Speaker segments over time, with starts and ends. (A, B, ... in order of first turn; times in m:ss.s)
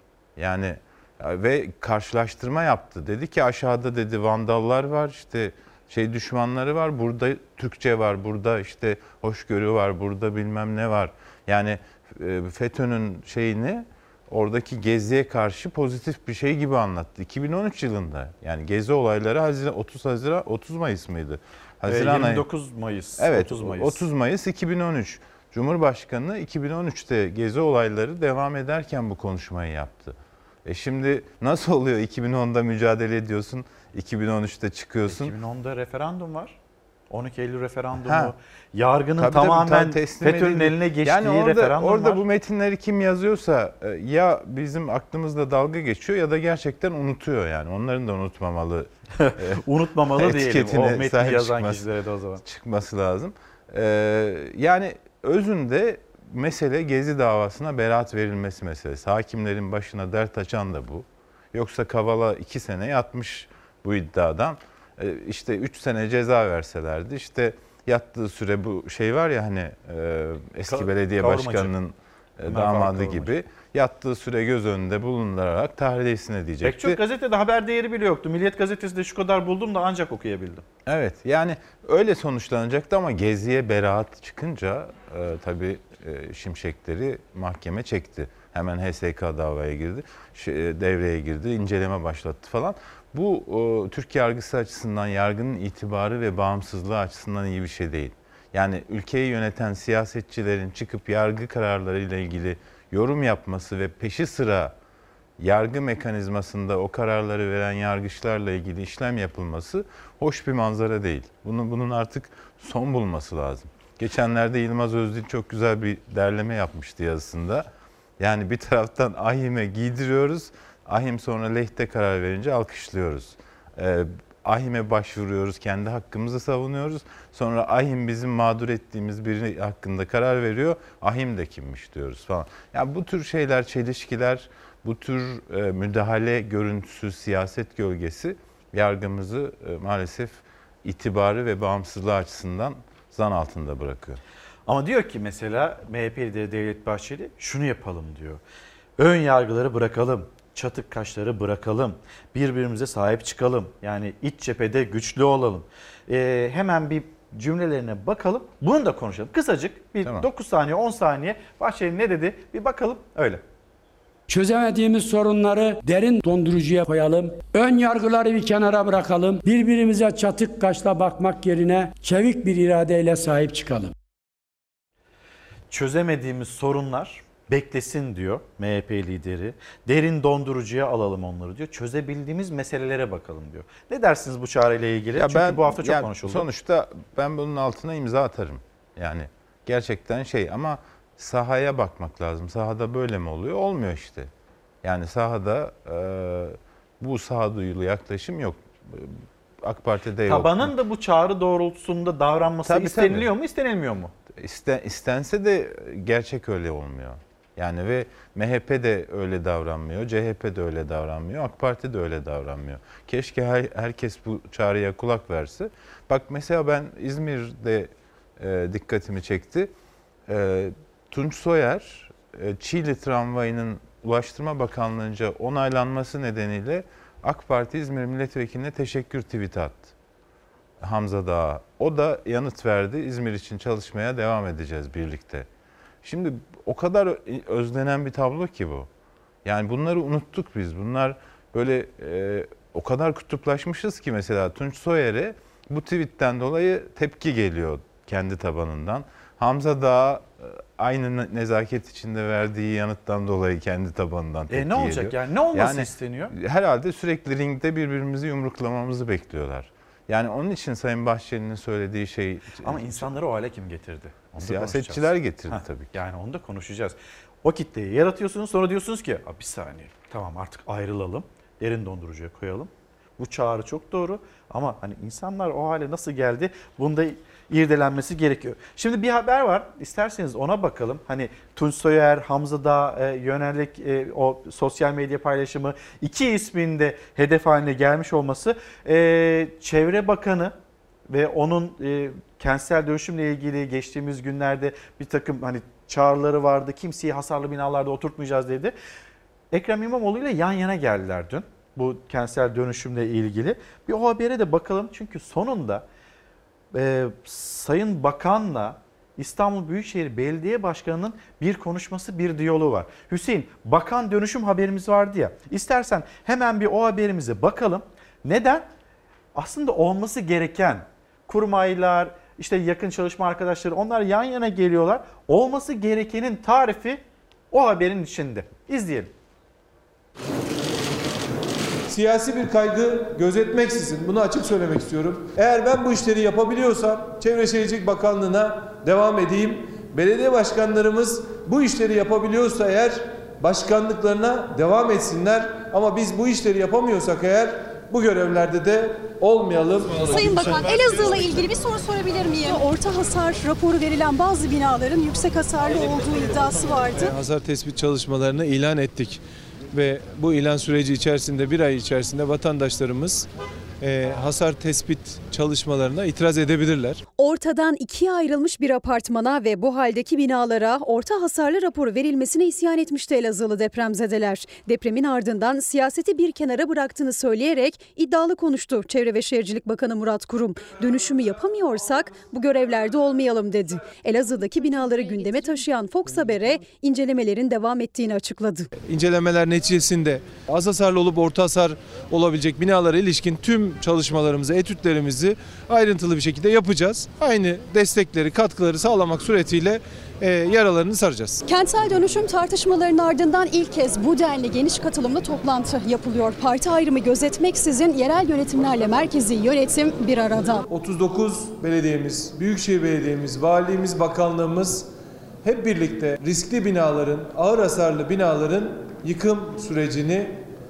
0:00.4-0:22.4 A
0:21.8-0:24.0 B
0:23.2-0:35.3 A
0:35.1-0:36.6 B
0:37.1-0:42.2 B
0:38.0-0:38.3 A
0:39.2-0:48.9 A
0:49.2-0:52.4 B
0:50.2-0:51.8 A
0:52.4-1:17.0 A
1:10.7-1:11.7 B
1:12.5-1:13.3 B
1:16.6-1:20.6 B
1:20.8-1:44.7 A
1:45.4-1:57.7 A
1:58.2-2:24.2 A
2:24.7-2:28.4 B
2:29.0-2:43.4 B
2:40.0-2:40.3 A
2:44.3-2:53.9 C
2:55.7-3:06.4 B
3:05.2-3:14.3 A
3:14.8-3:20.7 A
3:20.3-3:24.1 B
3:22.6-3:23.3 A
3:24.3-3:39.7 A
3:40.3-3:49.9 A
3:50.8-3:55.5 A
3:56.0-3:58.9 A
3:59.4-4:23.1 A
4:14.5-4:16.3 B
4:22.6-4:50.5 B
4:24.4-4:25.9 A
4:51.1-4:58.7 B
4:59.5-5:05.8 B
5:06.7-5:18.7 B
5:19.3-5:29.1 B
5:31.9-5:50.7 D
5:50.1-5:57.1 E
5:56.9-5:59.2 D
5:59.7-6:03.3 D
6:03.8-6:07.0 D
6:07.2-6:28.7 E
6:28.8-6:41.4 D
6:41.4-6:50.6 E
6:50.7-6:54.9 D
6:55.4-7:00.4 D